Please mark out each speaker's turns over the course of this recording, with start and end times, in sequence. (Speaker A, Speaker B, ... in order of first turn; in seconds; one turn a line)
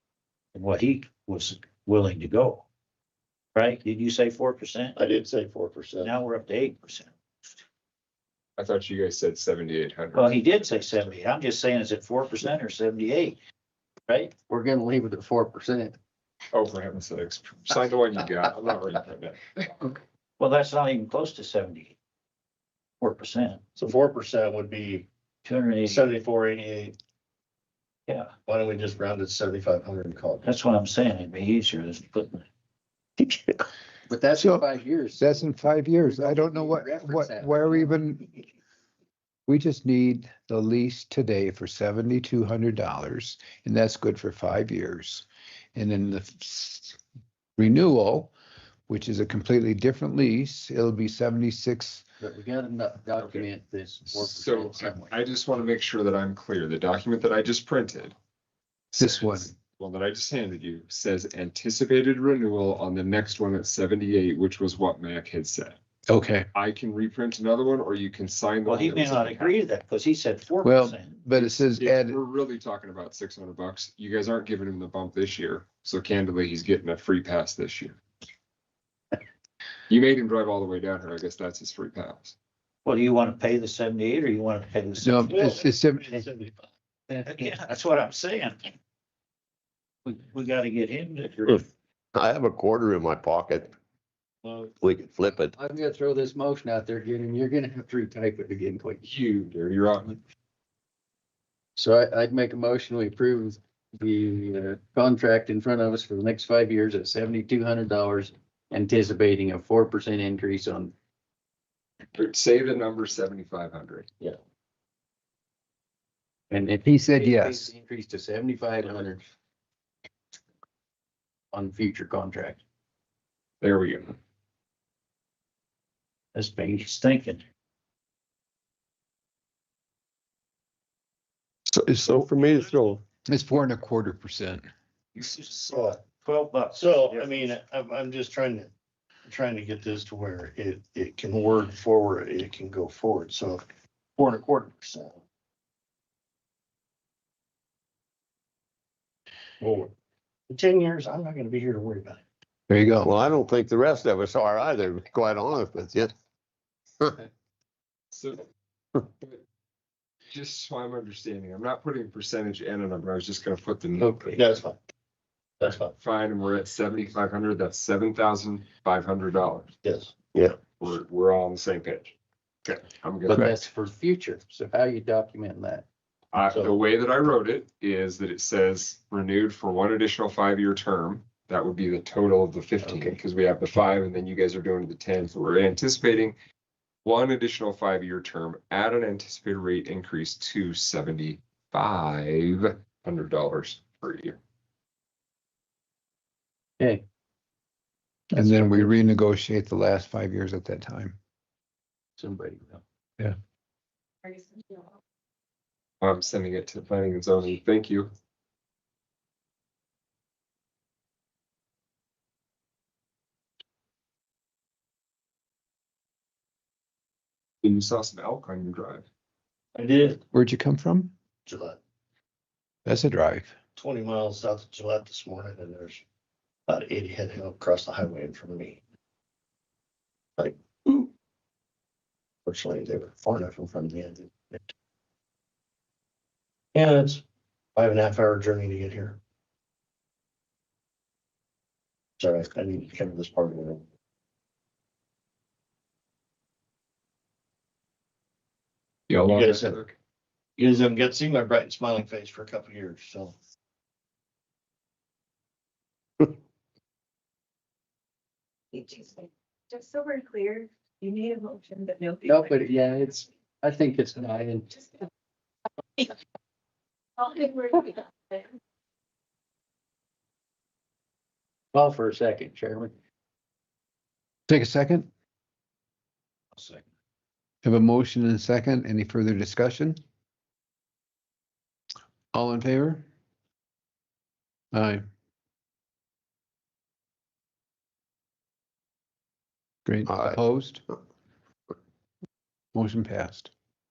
Speaker A: 0.5-2.6
Speaker A: 3.5-5.0
Speaker B: 4.9-6.2
Speaker A: 6.0-7.1
Speaker C: 8.6-10.9
Speaker A: 10.1-13.4
Speaker A: 14.1-14.3
Speaker D: 14.5-15.9
Speaker C: 16.5-20.0
Speaker A: 20.4-21.9
Speaker A: 23.0-23.6
Speaker B: 23.8-25.1
Speaker A: 25.4-26.1
Speaker B: 25.8-26.9
Speaker B: 28.4-30.5
Speaker A: 30.4-32.5
Speaker D: 34.1-38.0
Speaker E: 34.4-38.4
Speaker E: 39.5-47.0
Speaker E: 47.6-48.3
Speaker E: 48.9-52.0
Speaker D: 52.2-55.2
Speaker C: 53.1-53.5
Speaker C: 54.1-58.1
Speaker C: 58.9-65.8
Speaker E: 59.0-59.5
Speaker E: 66.1-66.5
Speaker C: 66.5-69.6
Speaker A: 68.7-71.2
Speaker E: 70.6-72.2
Speaker C: 71.3-78.0
Speaker C: 79.9-82.3
Speaker A: 82.8-85.4
Speaker E: 85.0-86.2
Speaker B: 85.2-86.6
Speaker A: 87.2-88.7
Speaker A: 90.0-91.6
Speaker F: 92.1-93.7
Speaker B: 94.4-94.8
Speaker F: 94.8-95.5
Speaker D: 95.5-99.0
Speaker C: 99.0-100.2
Speaker D: 101.8-110.9
Speaker C: 112.1-114.1
Speaker D: 116.5-119.3
Speaker E: 116.8-117.7
Speaker D: 121.5-122.6
Speaker C: 123.6-124.2
Speaker A: 126.3-127.4
Speaker F: 131.7-133.0
Speaker E: 133.2-134.7
Speaker A: 135.2-137.6
Speaker B: 135.7-136.0
Speaker B: 136.7-138.7
Speaker B: 139.2-143.7
Speaker B: 144.2-145.2
Speaker B: 149.6-149.9
Speaker B: 150.5-152.2
Speaker E: 152.7-153.1
Speaker F: 153.0-156.1
Speaker C: 158.1-158.4
Speaker C: 160.3-164.3
Speaker D: 164.0-164.5
Speaker B: 164.3-164.8
Speaker B: 165.6-165.9
Speaker C: 165.9-169.7
Speaker B: 169.8-170.2
Speaker C: 170.8-173.5
Speaker D: 173.3-175.8
Speaker C: 176.3-186.3
Speaker B: 176.5-176.8
Speaker D: 182.8-183.2
Speaker C: 187.0-194.4
Speaker D: 196.8-197.0
Speaker D: 198.3-199.1
Speaker E: 198.3-201.2
Speaker D: 202.2-202.8
Speaker G: 204.2-204.9
Speaker C: 206.0-208.1
Speaker C: 217.6-219.1
Speaker B: 219.7-220.2
Speaker E: 220.3-221.1
Speaker B: 221.4-221.8
Speaker E: 222.8-223.5
Speaker B: 223.8-226.0
Speaker B: 226.7-228.8
Speaker B: 230.4-231.1
Speaker B: 232.4-234.7
Speaker B: 236.7-237.2
Speaker B: 237.8-239.2
Speaker B: 242.2-243.8
Speaker C: 249.1-249.9
Speaker B: 249.2-249.8
Speaker B: 250.6-253.3
Speaker G: 258.7-262.5
Speaker D: 262.2-264.7
Speaker G: 267.2-268.5
Speaker D: 271.7-272.9
Speaker E: 274.5-275.1
Speaker A: 276.5-276.8
Speaker E: 277.6-280.0
Speaker E: 282.3-283.0
Speaker E: 284.7-285.0
Speaker E: 289.9-290.8
Speaker F: 290.1-290.4
Speaker E: 292.7-293.5